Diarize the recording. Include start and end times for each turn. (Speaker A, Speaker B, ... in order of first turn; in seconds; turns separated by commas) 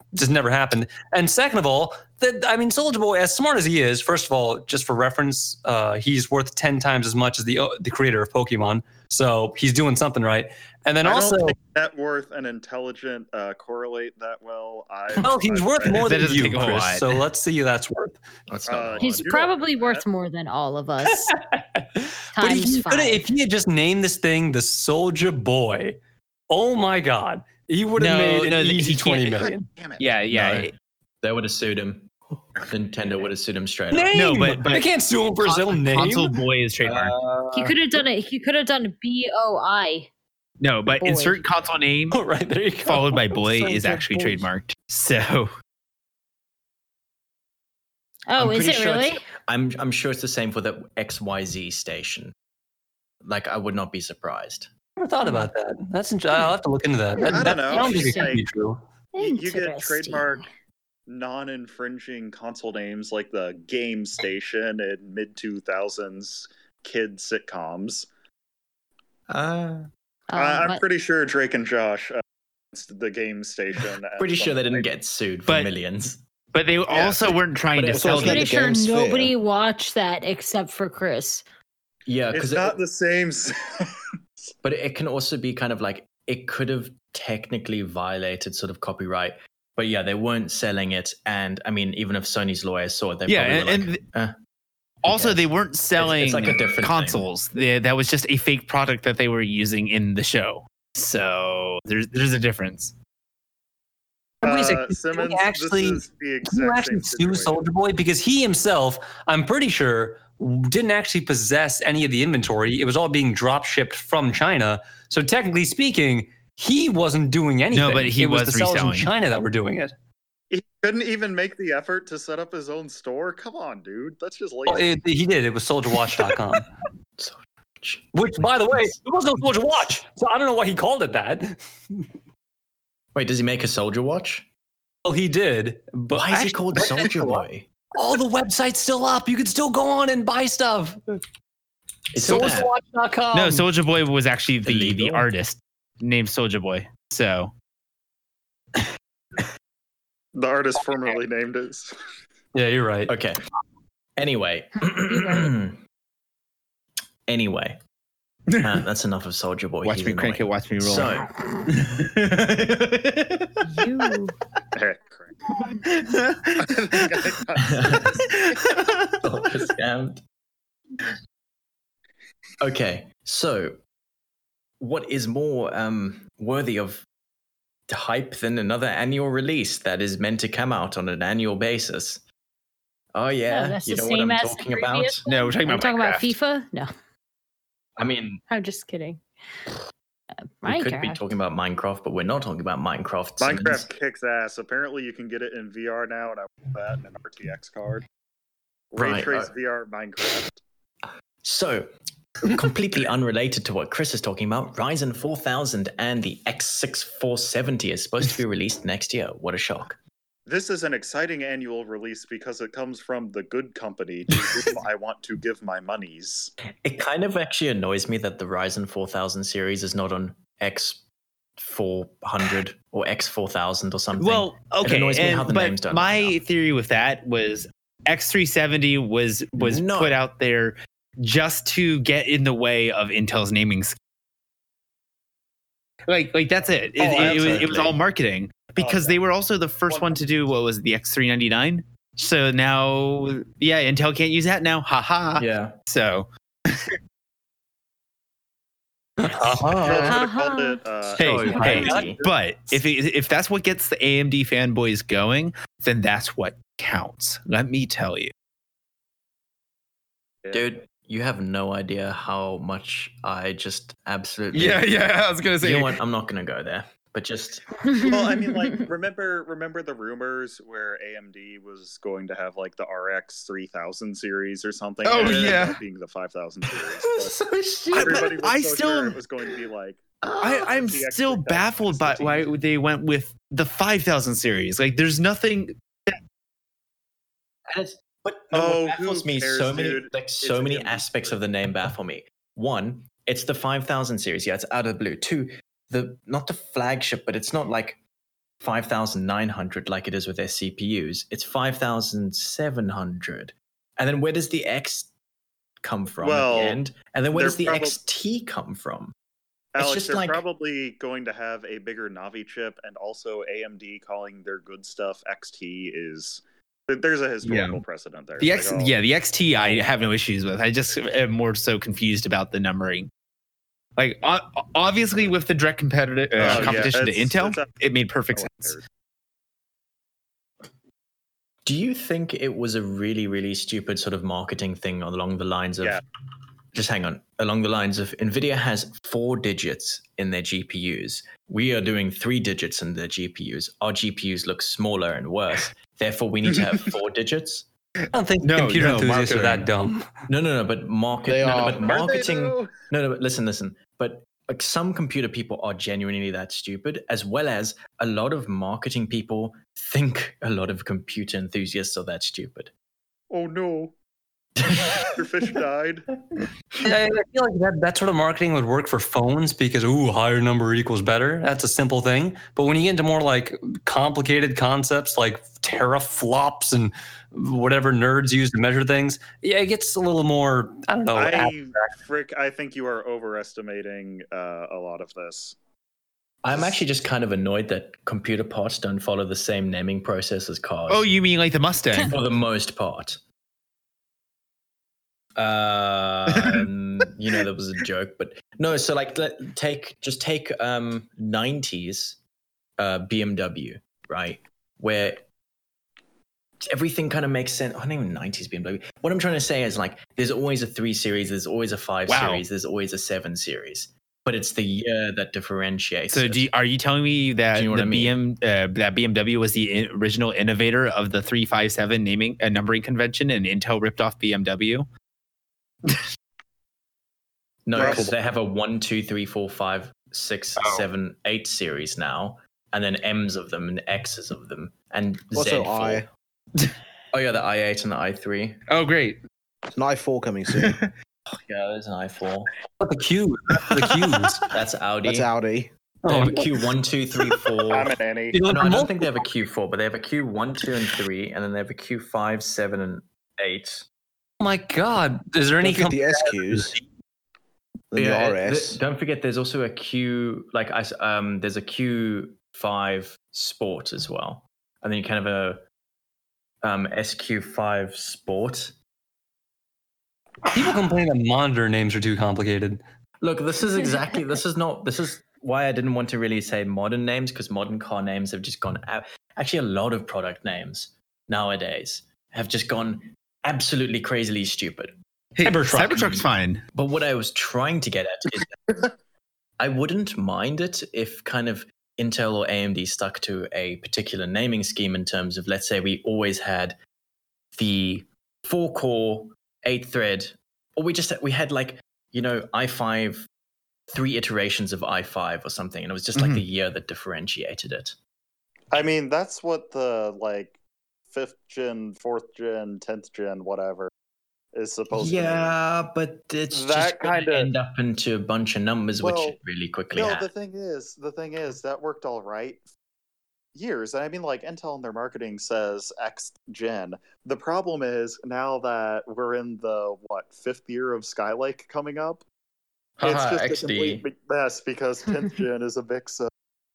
Speaker A: 0.1-11.6, Speaker B: 11.0-16.5, Speaker A: 15.2-18.2, Speaker C: 16.0-17.2, Speaker D: 18.5-19.2, Speaker B: 18.7-20.1, Speaker E: 19.0-21.3, Speaker A: 22.0-26.0, Speaker E: 22.3-23.2, Speaker A: 26.5-29.7, Speaker C: 28.0-30.7, Speaker D: 30.3-30.7, Speaker D: 31.2-32.1, Speaker D: 32.6-34.2, Speaker A: 33.9-36.4, Speaker C: 34.1-34.9, Speaker C: 35.4-37.2, Speaker D: 36.8-37.8, Speaker E: 37.5-40.1, Speaker C: 40.6-42.2, Speaker E: 41.0-41.4, Speaker A: 42.1-44.5, Speaker C: 42.9-45.5, Speaker E: 48.3-49.2, Speaker D: 48.4-52.3, Speaker D: 53.2-54.7, Speaker A: 55.0-58.8, Speaker E: 57.2-58.4, Speaker B: 57.2-58.5, Speaker E: 59.1-60.4, Speaker B: 59.2-60.5, Speaker B: 61.1-68.1, Speaker D: 69.3-69.9, Speaker E: 70.3-70.8, Speaker B: 70.3-72.2, Speaker B: 72.7-74.9, Speaker D: 74.2-76.2, Speaker C: 76.5-78.5, Speaker B: 76.9-77.4, Speaker D: 77.8-78.3, Speaker F: 77.9-79.3, Speaker E: 78.1-81.4, Speaker D: 82.1-82.8, Speaker B: 82.3-84.0, Speaker D: 84.6-94.3, Speaker C: 93.3-94.0, Speaker C: 95.0-102.9, Speaker D: 95.1-97.2, Speaker A: 104.4-119.9, Speaker B: 104.4-107.6, Speaker C: 117.7-119.1, Speaker B: 120.5-125.0, Speaker A: 124.7-126.7, Speaker D: 127.2-128.1, Speaker A: 128.1-131.6, Speaker D: 133.1-134.5, Speaker A: 135.1-137.4, Speaker D: 136.1-137.7, Speaker A: 137.9-141.2, Speaker D: 142.1-142.7, Speaker A: 142.2-143.7, Speaker C: 143.3-147.5, Speaker D: 144.6-145.3, Speaker B: 150.3-151.9, Speaker A: 152.5-153.1, Speaker D: 153.1-153.4, Speaker D: 154.2-155.8, Speaker D: 157.3-157.8, Speaker C: 158.5-158.8, Speaker D: 158.6-161.3, Speaker C: 159.8-163.5, Speaker E: 163.6-164.3, Speaker B: 164.7-165.3, Speaker C: 165.8-167.2, Speaker B: 166.6-168.2, Speaker D: 167.6-168.3, Speaker C: 168.2-169.2, Speaker D: 169.1-170.2, Speaker D: 172.6-173.8, Speaker D: 174.8-177.1, Speaker D: 177.9-182.2, Speaker D: 183.1-185.2, Speaker E: 183.5-186.9, Speaker C: 185.3-186.3, Speaker D: 188.0-188.4, Speaker E: 188.5-189.2, Speaker E: 190.6-191.2, Speaker D: 190.6-193.9, Speaker B: 193.4-198.1, Speaker B: 198.9-200.6, Speaker D: 199.0-199.5, Speaker D: 201.4-201.9, Speaker D: 202.4-210.0, Speaker B: 210.5-216.5, Speaker D: 216.8-221.0, Speaker D: 221.6-226.3, Speaker C: 224.2-234.0, Speaker D: 229.6-230.2, Speaker C: 236.1-247.0, Speaker B: 237.0-237.8, Speaker D: 237.0-238.0, Speaker B: 238.8-239.2, Speaker B: 239.9-240.2, Speaker D: 245.4-245.8, Speaker A: 249.2-250.1, Speaker D: 249.6-250.2, Speaker B: 249.8-251.9, Speaker E: 249.9-250.8, Speaker D: 251.1-252.3, Speaker C: 251.2-258.3, Speaker E: 251.5-251.9, Speaker A: 251.6-252.2, Speaker D: 260.5-265.0, Speaker C: 264.5-265.9, Speaker D: 265.6-267.7, Speaker E: 267.8-268.8, Speaker B: 268.0-277.4, Speaker C: 275.0-275.8, Speaker D: 275.2-275.6, Speaker D: 277.0-278.4, Speaker C: 277.9-279.2, Speaker B: 278.0-280.0, Speaker D: 280.2-280.8, Speaker C: 280.4-285.8, Speaker B: 280.5-282.5, Speaker D: 287.7-298.0, Speaker B: 288.5-291.3, Speaker D: 298.6-305.1, Speaker D: 305.8-309.1, Speaker B: 306.2-306.8, Speaker B: 307.3-308.0, Speaker B: 309.7-319.0, Speaker D: 309.8-310.4, Speaker C: 317.4-317.8, Speaker C: 318.4-323.1, Speaker B: 319.6-320.1, Speaker C: 324.0-328.8, Speaker B: 326.4-327.7, Speaker D: 326.4-326.9, Speaker B: 328.3-328.8, Speaker D: 331.6-336.0, Speaker D: 336.7-347.7, Speaker A: 348.1-350.1, Speaker C: 348.4-349.7, Speaker D: 350.3-362.7, Speaker F: 351.3-352.0, Speaker C: 351.9-352.4, Speaker B: 363.3-363.9, Speaker D: 364.6-365.0, Speaker B: 364.9-366.1, Speaker A: 366.8-381.9, Speaker B: 381.1-385.6, Speaker D: 386.4-391.1, Speaker C: 390.9-392.1, Speaker D: 392.0-393.2, Speaker D: 395.4-402.2, Speaker C: 396.4-396.6, Speaker D: 402.8-405.2, Speaker D: 406.6-416.5, Speaker C: 412.1-412.4, Speaker C: 416.1-424.9, Speaker D: 417.5-418.2, Speaker D: 427.7-436.0, Speaker B: 427.8-428.1, Speaker C: 427.8-428.1, Speaker C: 430.6-430.9, Speaker F: 435.3-436.1, Speaker D: 437.1-438.6, Speaker C: 438.7-439.2, Speaker F: 439.7-440.8, Speaker C: 440.6-440.9, Speaker D: 441.3-442.5, Speaker A: 442.8-444.4, Speaker C: 443.7-444.4, Speaker D: 444.5-445.3, Speaker F: 445.0-445.7, Speaker A: 446.0-446.5, Speaker D: 446.1-447.9, Speaker B: 447.7-448.4, Speaker A: 448.3-449.0, Speaker D: 448.5-453.9, Speaker A: 454.4-456.8, Speaker F: 455.6-456.8, Speaker F: 457.9-458.8, Speaker D: 457.9-465.6, Speaker D: 466.6-468.7, Speaker A: 470.5-472.8, Speaker D: 473.2-484.9, Speaker C: 485.4-486.6, Speaker A: 485.4-486.1, Speaker D: 485.9-488.8, Speaker D: 489.6-496.8, Speaker D: 497.6-503.3, Speaker D: 503.9-508.0, Speaker C: 506.1-506.4, Speaker B: 508.7-510.6, Speaker B: 511.1-513.9, Speaker B: 514.5-515.5, Speaker D: 514.9-520.3, Speaker B: 516.5-517.5, Speaker B: 519.0-519.4, Speaker B: 519.9-522.6, Speaker B: 523.5-532.2, Speaker D: 533.0-534.1, Speaker B: 533.0-536.3